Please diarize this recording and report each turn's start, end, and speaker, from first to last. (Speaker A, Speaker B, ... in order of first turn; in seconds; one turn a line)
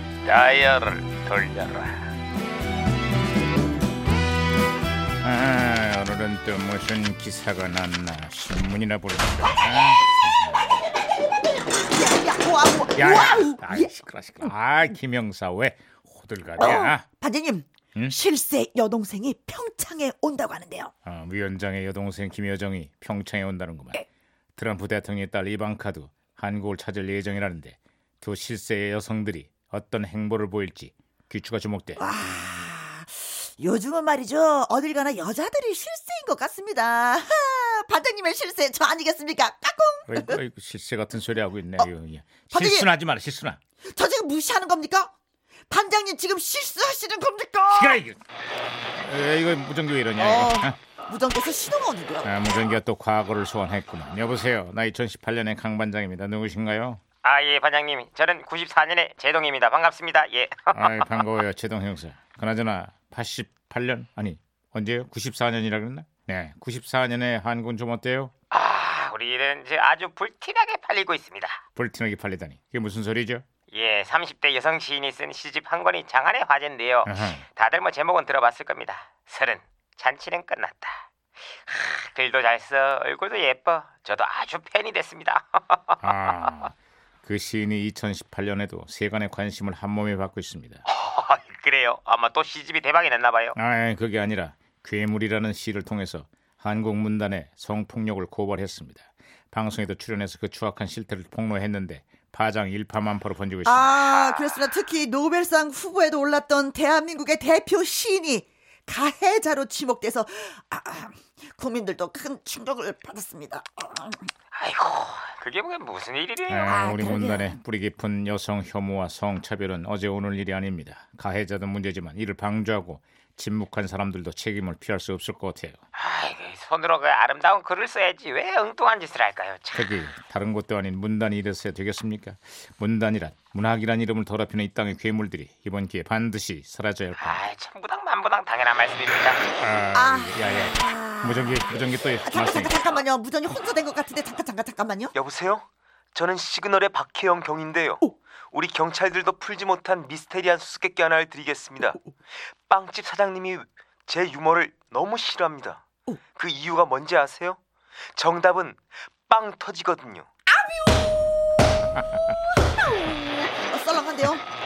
Speaker A: 0.2-2.1
Speaker A: 5.2-10.7
Speaker B: 11.9-14.5
Speaker A: 12.9-17.0
Speaker B: 16.6-20.9
Speaker A: 21.0-24.0
Speaker A: 24.6-32.1
Speaker B: 32.0-40.4
Speaker A: 40.1-43.6
Speaker B: 42.5-42.9
Speaker B: 43.9-45.1
Speaker B: 45.7-48.0
Speaker A: 47.7-48.2
Speaker A: 48.9-50.7
Speaker B: 50.2-52.3
Speaker A: 52.2-57.0
Speaker C: 57.2-61.3
Speaker A: 60.7-68.3
Speaker C: 68.5-71.6
Speaker A: 71.8-73.4
Speaker C: 73.7-86.5
Speaker A: 77.0-77.4
Speaker A: 86.0-86.7
Speaker A: 87.2-90.8
Speaker C: 90.8-93.5
Speaker A: 93.5-104.0
Speaker B: 103.6-114.2
Speaker C: 104.1-104.7
Speaker C: 114.5-116.9
Speaker A: 116.5-125.8
Speaker B: 116.6-117.5
Speaker C: 125.9-130.1
Speaker A: 129.7-137.4
Speaker C: 137.2-139.5
Speaker A: 139.6-142.9
Speaker B: 139.9-145.1
Speaker C: 145.1-152.0
Speaker C: 152.7-155.8
Speaker C: 156.3-157.6
Speaker C: 158.1-160.2
Speaker B: 160.5-161.1
Speaker B: 162.6-164.4